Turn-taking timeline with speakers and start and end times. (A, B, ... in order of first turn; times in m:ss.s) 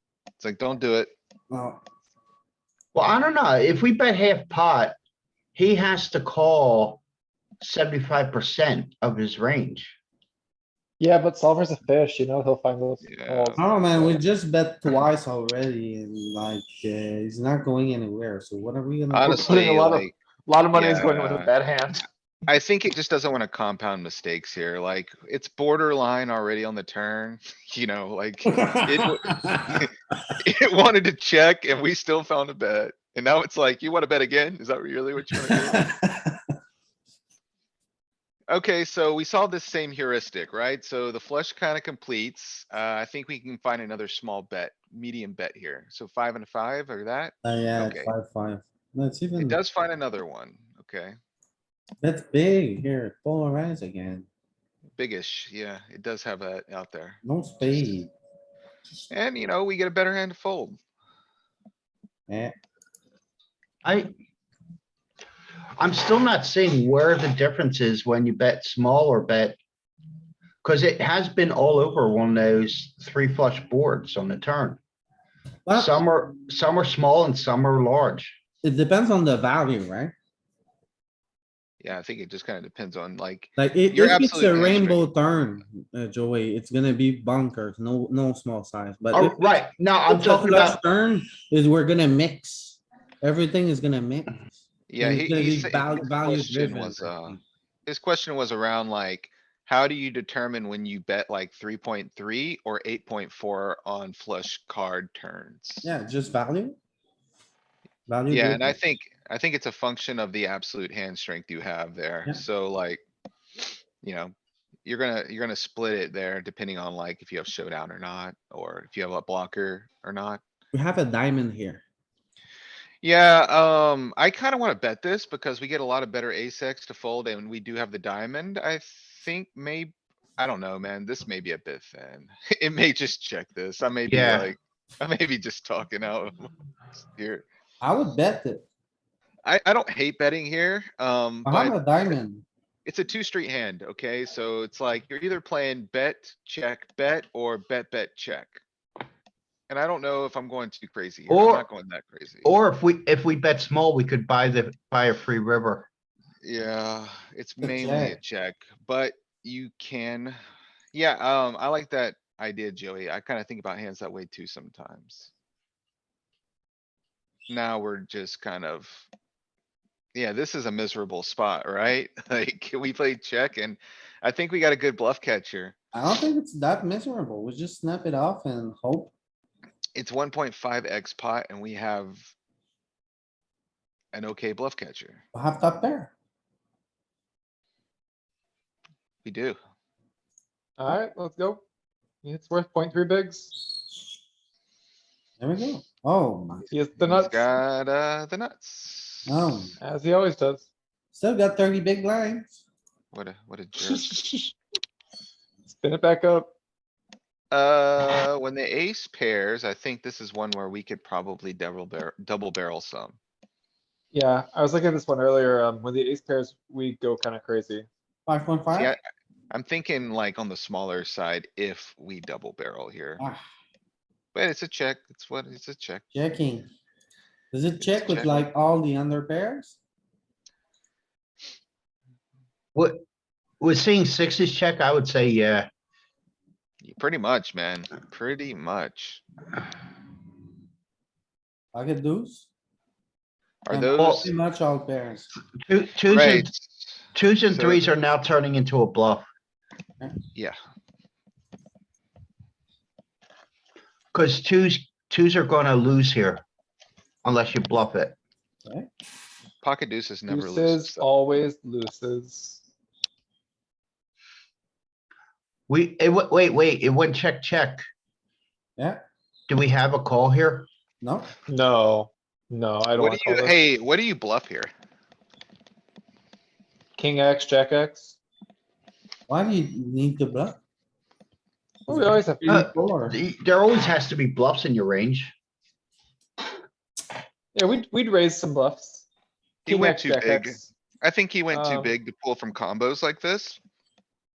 0:00.4-0:01.1 A
0:01.5-0:01.8 B
0:02.9-0:05.0 C
0:05.5-0:07.0 C
0:07.6-0:10.0 C
0:11.0-0:14.2 D
0:13.0-0:13.6 A
0:13.6-0:19.6 B
0:19.1-0:20.2 A
0:19.3-0:22.0 D
0:20.7-0:21.5 A
0:22.5-0:35.9 A
0:28.6-0:29.8 B
0:35.4-0:36.4 B
0:38.5-0:48.1 A
0:47.4-0:49.6 B
0:49.4-0:51.2 A
0:52.0-0:54.3 B
0:55.0-0:57.9 A
0:57.2-0:58.1 B
0:59.1-1:00.8 A
1:02.3-1:02.5 B
1:03.8-1:04.1 C
1:05.8-1:09.6 C
1:10.6-1:14.8 C
1:15.7-1:15.9 B
1:15.8-1:18.3 C
1:18.6-1:20.1 B
1:21.8-1:25.1 A
1:23.6-1:29.4 B
1:29.1-1:30.8 C
1:30.1-1:37.4 B
1:34.9-1:45.9 A
1:45.8-1:46.8 B
1:48.1-1:48.8 B
1:48.3-1:53.0 A
1:54.0-1:54.3 A
1:54.8-2:00.4 A
2:00.7-2:01.8 B
2:03.0-2:17.4 A
2:14.1-2:14.5 C
2:17.8-2:18.7 B
2:19.4-2:21.8 A
2:21.4-2:22.4 B
2:22.8-2:28.6 A
2:29.7-2:32.5 A
2:31.3-2:31.7 C
2:32.4-2:35.9 C
2:36.4-2:40.4 A
2:37.6-2:38.2 B
2:40.9-2:45.3 A
2:47.5-2:49.1 A
2:50.1-2:55.8 A
2:55.9-2:59.1 B
2:59.9-3:02.3 A
3:04.1-3:05.2 A
3:05.3-3:06.1 B
3:09.2-3:09.6 A
3:10.8-3:11.6 D
3:12.2-3:13.5 D
3:15.4-3:16.7 B
3:16.7-3:17.4 D
3:17.0-3:19.7 A
3:19.2-3:19.8 B
3:19.8-3:20.7 D
3:21.1-3:22.6 B
3:23.1-3:24.1 A
3:23.8-3:24.5 D
3:25.7-3:26.5 D
3:27.5-3:33.2 A
3:34.1-3:37.9 D
3:38.2-3:38.9 B
3:39.5-3:43.2 A
3:44.3-3:46.0 A
3:46.1-3:46.7 B
3:47.5-3:49.8 B
3:47.8-3:48.4 A
3:52.8-3:53.0 C
3:53.6-3:55.7 C
3:56.8-3:59.2 A
4:01.7-4:02.5 B
4:03.7-4:04.3 A
4:03.7-4:05.4 B
4:04.0-4:04.2 C
4:05.6-4:06.5 C
4:06.1-4:06.9 A
4:07.1-4:09.2 C
4:07.5-4:07.8 A
4:14.1-4:16.4 C
4:17.2-4:18.2 C
4:19.6-4:21.0 A
4:20.3-4:22.6 D
4:25.7-4:27.8 C
4:29.5-4:30.7 C
4:31.0-4:31.3 B
4:31.5-4:33.6 D
4:33.0-4:34.7 A
4:37.0-4:38.2 D
4:39.3-4:40.6 B
4:41.9-4:42.5 D
4:41.9-4:43.2 B
4:42.4-4:45.3 C
4:47.5-4:49.1 D
4:49.7-4:53.6 A
4:49.7-4:50.7 D
4:51.5-4:51.9 D